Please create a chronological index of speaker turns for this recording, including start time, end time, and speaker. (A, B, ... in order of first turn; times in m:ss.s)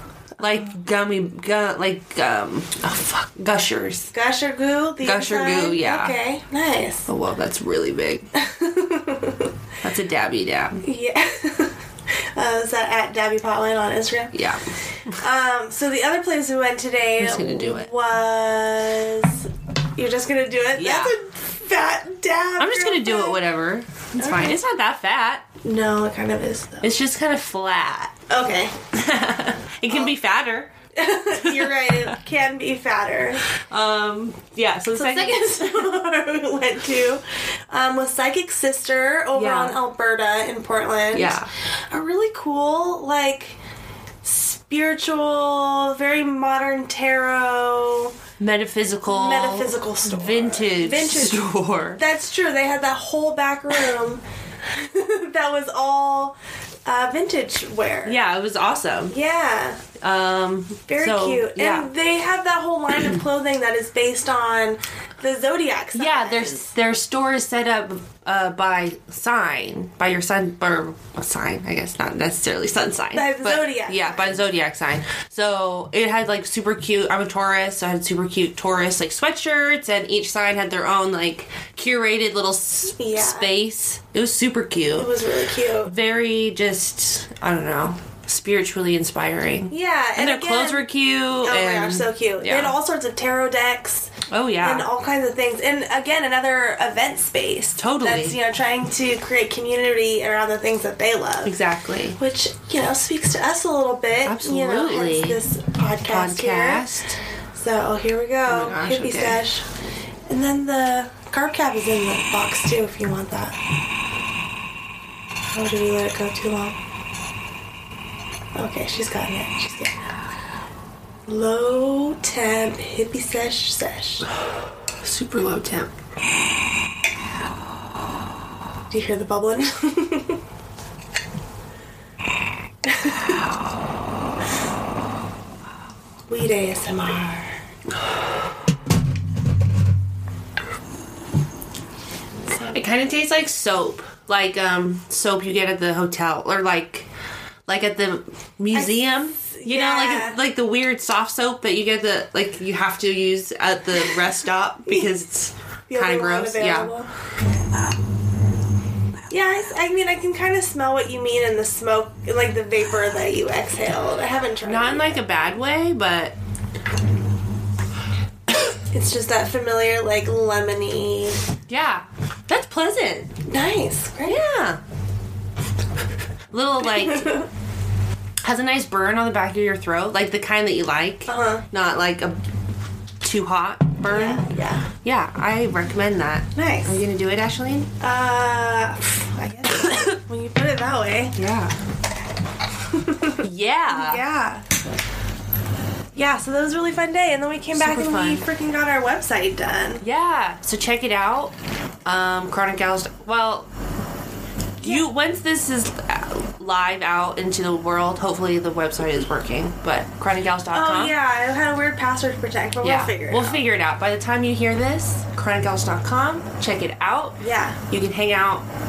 0:00.4-0:04.1 A
0:04.1-0:07.1 B
0:05.0-0:06.2 A
0:07.1-0:08.3 A
0:08.3-0:09.5 B
0:09.8-0:10.8 A
0:10.8-0:14.3 B
0:14.3-0:15.2 A
0:15.2-0:23.4 B
0:17.2-0:17.9 A
0:20.8-0:21.1 A
0:22.6-0:25.5 A
0:24.2-0:24.6 B
0:25.6-0:26.9 B
0:26.8-0:28.2 A
0:28.3-0:28.7 B
0:28.9-0:30.7 A
0:30.9-0:33.4 B
0:31.3-0:32.2 A
0:33.7-0:35.9 A
0:34.9-0:43.6 B
0:39.3-0:39.8 A
0:41.1-0:41.5 A
0:44.2-0:48.2 B
0:48.4-0:52.0 A
0:49.1-0:58.2 B
0:58.0-0:59.2 A
0:59.1-0:59.8 B
1:00.0-1:01.9 A
1:00.9-1:06.7 B
1:05.9-1:25.1 A
1:13.1-1:14.4 B
1:23.0-1:23.5 B
1:25.0-1:25.9 B
1:25.8-1:32.7 A
1:29.7-1:30.9 B
1:31.4-1:41.6 B
1:34.3-1:34.9 A
1:37.8-1:38.4 A
1:41.4-1:42.2 A
1:42.2-1:46.8 B
1:44.2-1:45.4 A
1:46.0-1:47.2 A
1:47.5-1:49.7 B
1:48.4-1:49.4 A
1:50.3-1:53.6 B
1:55.5-1:56.8 B
1:58.5-2:00.1 B
2:01.2-2:04.2 B
2:05.0-2:05.9 A
2:08.9-2:10.4 B
2:12.8-2:13.4 B
2:16.3-2:17.5 B
2:22.5-2:27.1 A
2:27.7-2:36.9 A
2:28.7-2:30.4 B
2:35.9-2:37.1 B
2:39.3-2:45.2 B
2:44.6-2:46.4 A
2:48.9-2:51.4 B
2:51.7-2:53.3 A
2:53.4-2:54.4 B
2:54.2-2:54.8 A
2:56.5-2:57.4 A
2:56.8-2:57.5 B
2:58.4-3:02.4 A
3:01.3-3:01.6 B
3:03.2-3:04.4 A
3:04.0-3:04.8 B
3:05.0-3:07.9 A
3:06.6-3:07.0 B
3:08.0-3:11.4 B
3:11.3-3:11.7 A
3:12.9-3:14.6 B
3:13.4-3:14.2 A
3:16.1-3:20.0 B
3:17.7-3:18.4 A
3:20.0-3:21.5 A
3:22.0-3:23.7 A
3:24.8-3:31.1 A
3:24.8-3:25.1 B
3:30.7-3:33.6 B
3:32.8-3:38.6 A
3:37.4-3:37.8 B